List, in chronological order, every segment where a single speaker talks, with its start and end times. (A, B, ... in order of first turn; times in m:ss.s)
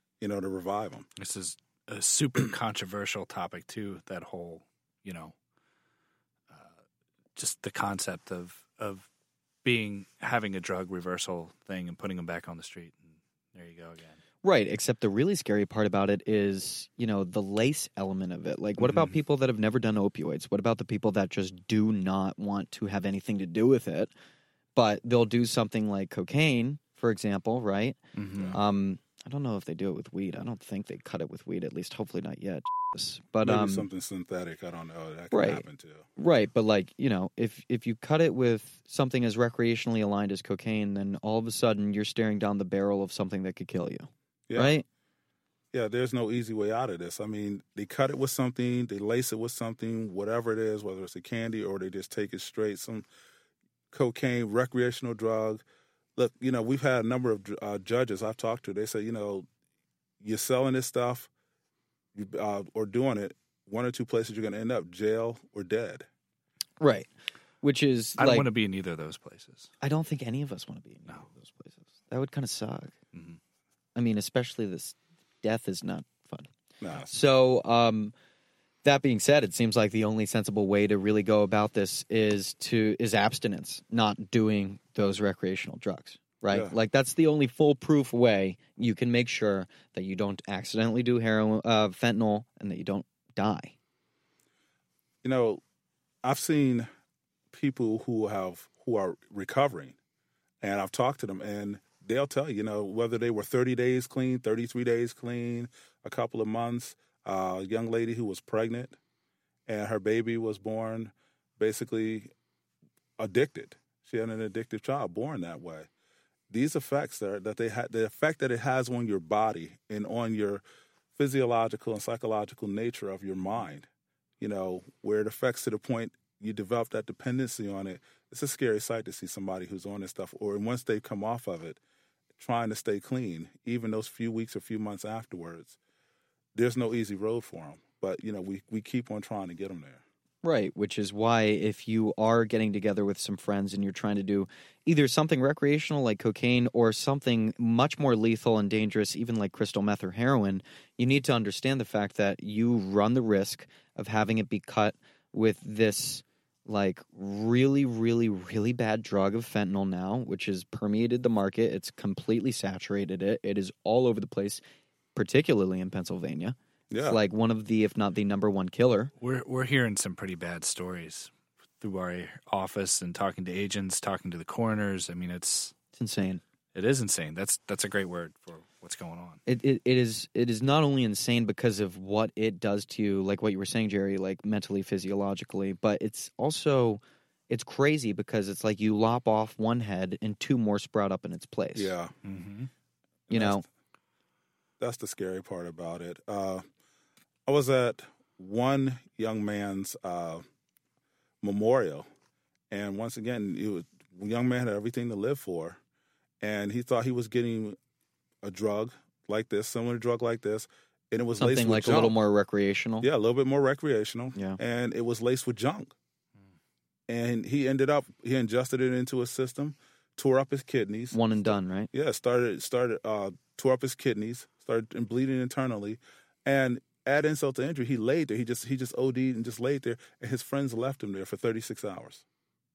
0:00.2-0:01.1 A
0:01.2-0:05.3 B
0:07.4-0:09.1 B
0:09.6-0:14.2 B
0:14.4-0:24.1 C
0:24.8-0:28.0 C
0:28.2-0:28.6 B
0:28.3-0:28.6 A
0:28.5-0:33.9 C
0:33.4-0:36.1 A
0:35.3-0:35.6 C
0:36.2-0:44.9 C
0:45.7-0:53.1 A
0:53.9-0:55.6 A
0:56.2-0:59.5 A
1:00.2-1:01.3 A
1:02.2-1:06.1 A
1:06.8-1:07.1 C
1:07.6-1:08.5 C
1:08.2-1:09.7 B
1:09.8-1:13.0 C
1:13.1-1:13.4 B
1:14.0-1:16.5 C
1:16.8-1:17.1 A
1:17.1-1:18.1 C
1:18.8-1:33.8 C
1:26.5-1:26.8 A
1:35.2-1:35.6 A
1:36.2-1:36.9 A
1:37.5-1:40.0 A
1:40.6-1:49.0 A
1:49.7-1:52.3 A
1:53.2-1:55.9 A
1:56.5-2:00.6 A
2:01.2-2:03.9 A
2:04.4-2:11.8 A
2:12.4-2:15.8 A
2:16.6-2:20.0 A
2:20.4-2:44.6 C
2:45.2-2:49.1 C
2:46.9-2:47.2 A
2:49.2-2:55.8 B
2:55.9-2:56.4 C
2:56.7-2:59.4 B
2:59.5-3:11.9 C
3:11.8-3:12.1 A
3:12.2-3:12.7 B
3:13.3-3:13.6 A
3:13.3-3:13.6 C
3:14.8-3:16.6 A
3:17.5-3:20.4 A
3:21.4-3:22.1 A
3:22.7-3:25.8 A
3:26.4-3:27.8 A
3:28.4-3:32.2 A
3:31.4-3:33.1 C
3:33.0-3:36.0 A
3:37.1-3:52.2 A
3:41.1-3:41.9 C